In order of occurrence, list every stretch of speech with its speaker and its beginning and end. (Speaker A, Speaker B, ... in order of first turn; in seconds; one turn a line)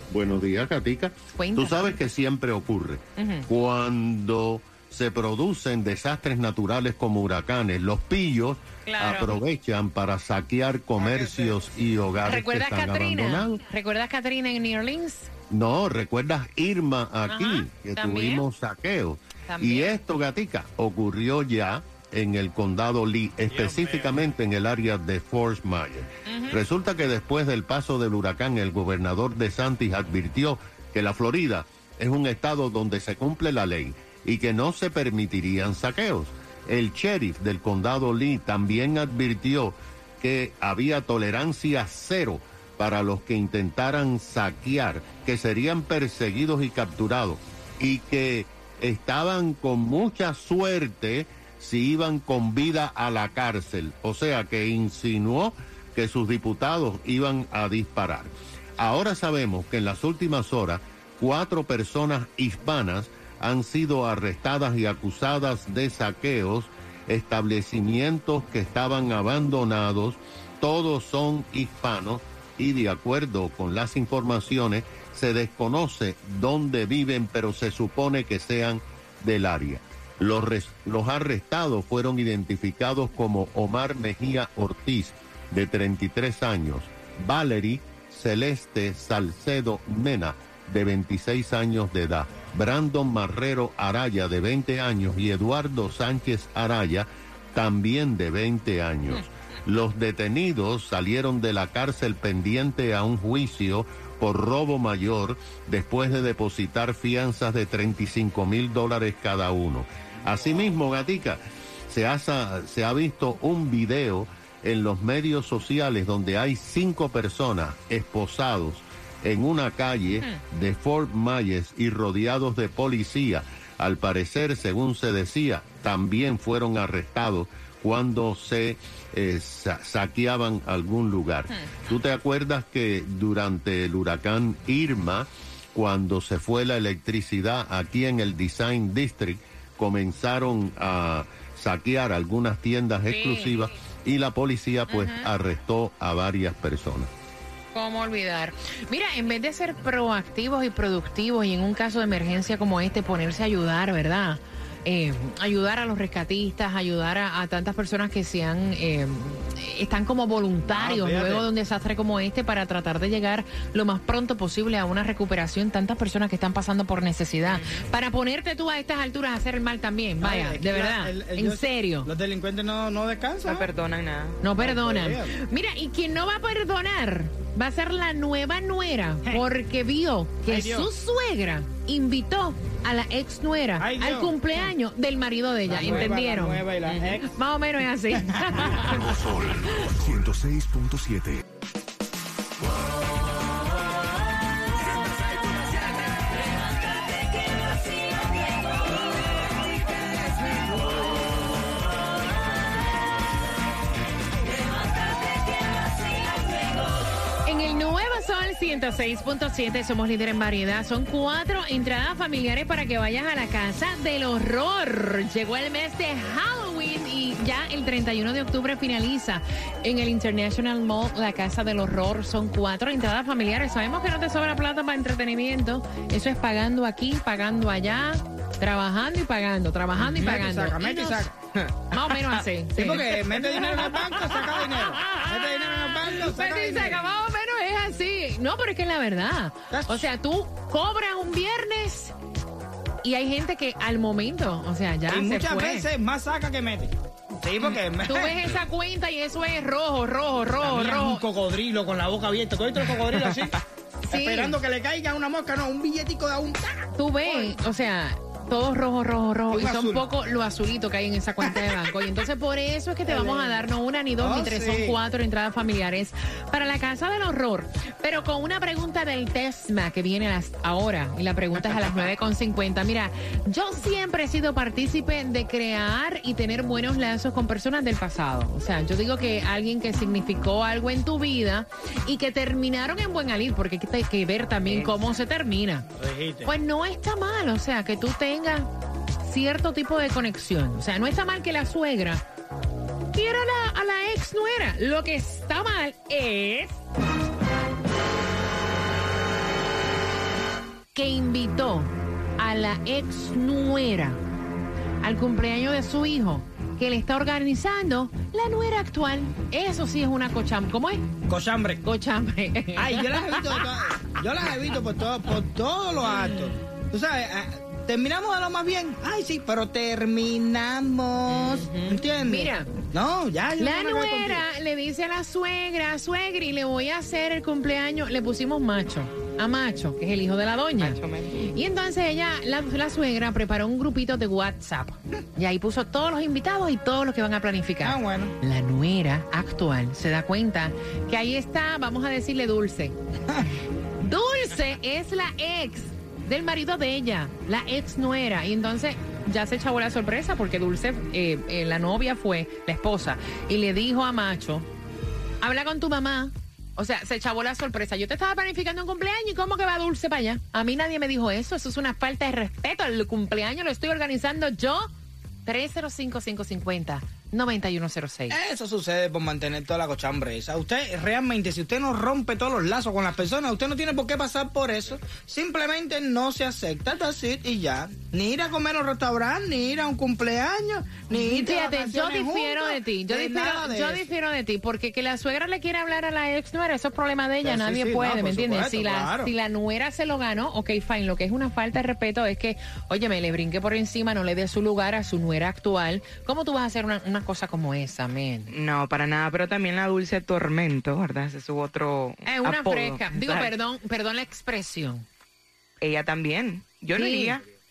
Speaker A: 0.1-13.6
Speaker B: 1.4-1.9
Speaker B: 3.2-3.5
Speaker B: 8.9-9.4
Speaker C: 11.0-11.6
Speaker B: 12.2-15.3
Speaker A: 15.5-147.1
Speaker B: 17.3-18.4
Speaker B: 19.5-19.9
Speaker C: 23.5-24.1
Speaker B: 26.3-26.6
Speaker B: 143.1-143.7
Speaker B: 144.9-145.3
Speaker B: 147.7-172.1
Speaker C: 160.7-161.5
Speaker D: 167.5-167.8
Speaker C: 170.2-173.7
Speaker D: 173.4-174.4
Speaker B: 174.4-186.7
Speaker C: 174.6-175.3
Speaker C: 180.5-180.9
Speaker C: 183.8-184.4
Speaker C: 185.7-187.3
Speaker B: 187.2-189.7
Speaker E: 188.8-191.4
Speaker B: 207.4-231.3
Speaker C: 230.0-231.4
Speaker B: 231.9-233.9
Speaker C: 232.7-237.0
Speaker B: 235.1-242.1
Speaker C: 239.7-240.1
Speaker B: 243.0-245.9
Speaker C: 245.1-248.6
Speaker B: 247.6-251.2
Speaker C: 250.6-253.6
Speaker B: 254.1-254.6
Speaker C: 254.1-257.6
Speaker B: 257.0-285.9
Speaker C: 259.5-260.1
Speaker C: 263.1-263.6
Speaker C: 264.2-265.0
Speaker D: 284.7-285.0
Speaker C: 286.0-286.5
Speaker B: 286.4-288.7
Speaker B: 289.2-292.2
Speaker B: 293.1-296.8
Speaker B: 300.9-304.2
Speaker B: 305.0-311.1
Speaker C: 311.3-311.8
Speaker B: 311.8-314.1
Speaker C: 312.8-324.4
Speaker D: 321.5-321.9
Speaker B: 322.2-322.7
Speaker B: 323.6-331.0
Speaker D: 330.8-331.5
Speaker B: 331.5-343.0
Speaker C: 337.8-338.3
Speaker B: 344.0-354.7
Speaker B: 355.4-364.9
Speaker B: 365.5-368.4
Speaker C: 368.3-384.1
Speaker B: 381.1-398.5
Speaker C: 387.4-389.3
Speaker D: 398.5-403.5
Speaker B: 402.3-405.1
Speaker D: 405.8-407.4
Speaker B: 406.9-407.4